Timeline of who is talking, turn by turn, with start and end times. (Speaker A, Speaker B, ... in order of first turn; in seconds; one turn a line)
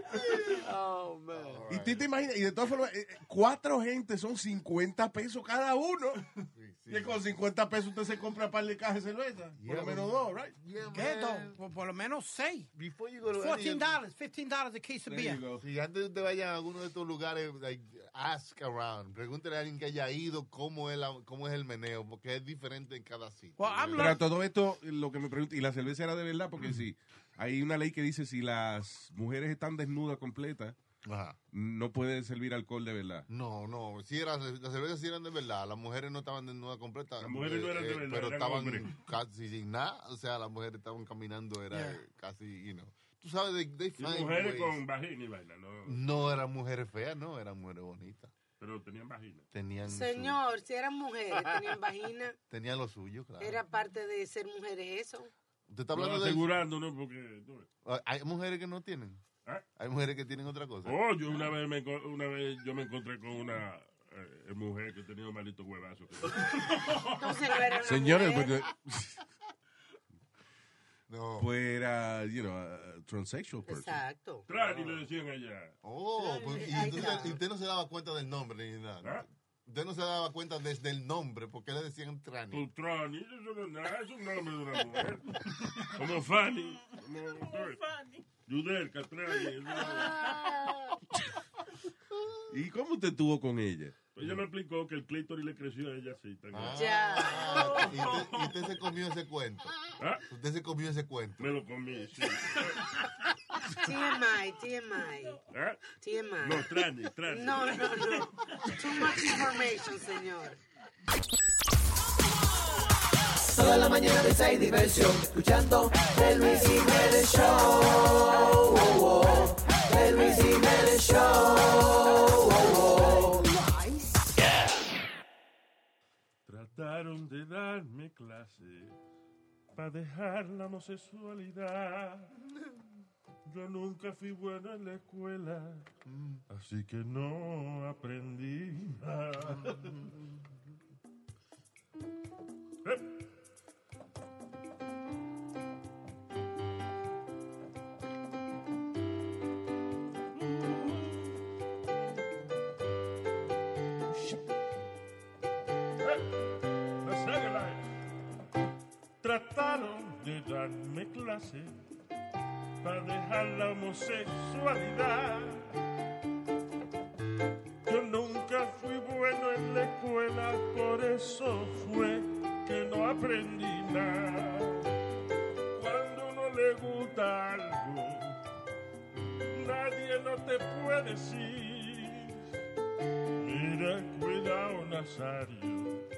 Speaker A: 0.5-1.6
Speaker B: 1.3-2.1
Speaker C: 1.7-6.3
Speaker B: 6.5-7.2
Speaker C: 6.9-10.6
Speaker B: 9.6-11.6
Speaker D: 10.9-12.7
Speaker B: 12.7-14.0
Speaker D: 13.4-15.4
Speaker C: 15.1-15.7
Speaker B: 15.6-24.2
Speaker D: 23.6-24.2
Speaker C: 24.0-30.8
Speaker B: 31.0-31.4
Speaker C: 31.5-33.3
Speaker B: 33.3-44.8
Speaker E: 37.2-38.9
Speaker E: 44.0-46.3
Speaker B: 45.9-48.3
Speaker E: 48.6-49.5
Speaker B: 49.5-50.4
Speaker A: 49.9-52.4
Speaker B: 52.5-53.6
Speaker A: 53.4-55.3
Speaker B: 55.7-56.5
Speaker E: 55.9-57.7
Speaker B: 57.8-59.2
Speaker B: 59.8-61.0
Speaker E: 60.9-67.2
Speaker A: 66.9-68.7
Speaker C: 67.8-69.2
Speaker B: 71.1-71.5
Speaker C: 71.4-74.0
Speaker A: 73.7-74.5
Speaker E: 74.5-75.8
Speaker B: 75.8-82.7
Speaker A: 76.2-77.4
Speaker E: 82.5-87.8
Speaker E: 88.5-90.4
Speaker C: 92.5-94.0
Speaker E: 94.1-98.5
Speaker B: 96.5-101.5
Speaker A: 96.8-98.0
Speaker E: 100.0-100.2
Speaker E: 101.4-103.0
Speaker A: 103.7-105.4
Speaker E: 105.5-105.9
Speaker A: 106.0-106.8
Speaker E: 106.4-108.0
Speaker A: 107.3-110.6
Speaker F: 113.5-123.4
Speaker E: 126.5-129.0
Speaker E: 129.7-132.3
Speaker E: 133.5-135.9
Speaker B: 136.1-136.4
Speaker E: 136.5-140.1
Speaker E: 150.6-151.2
Speaker E: 157.0-157.9
Speaker E: 159.2-161.8
Speaker E: 162.8-165.7
Speaker E: 167.9-174.9
Speaker E: 175.7-178.4
Speaker E: 179.5-182.4
Speaker E: 183.4-186.0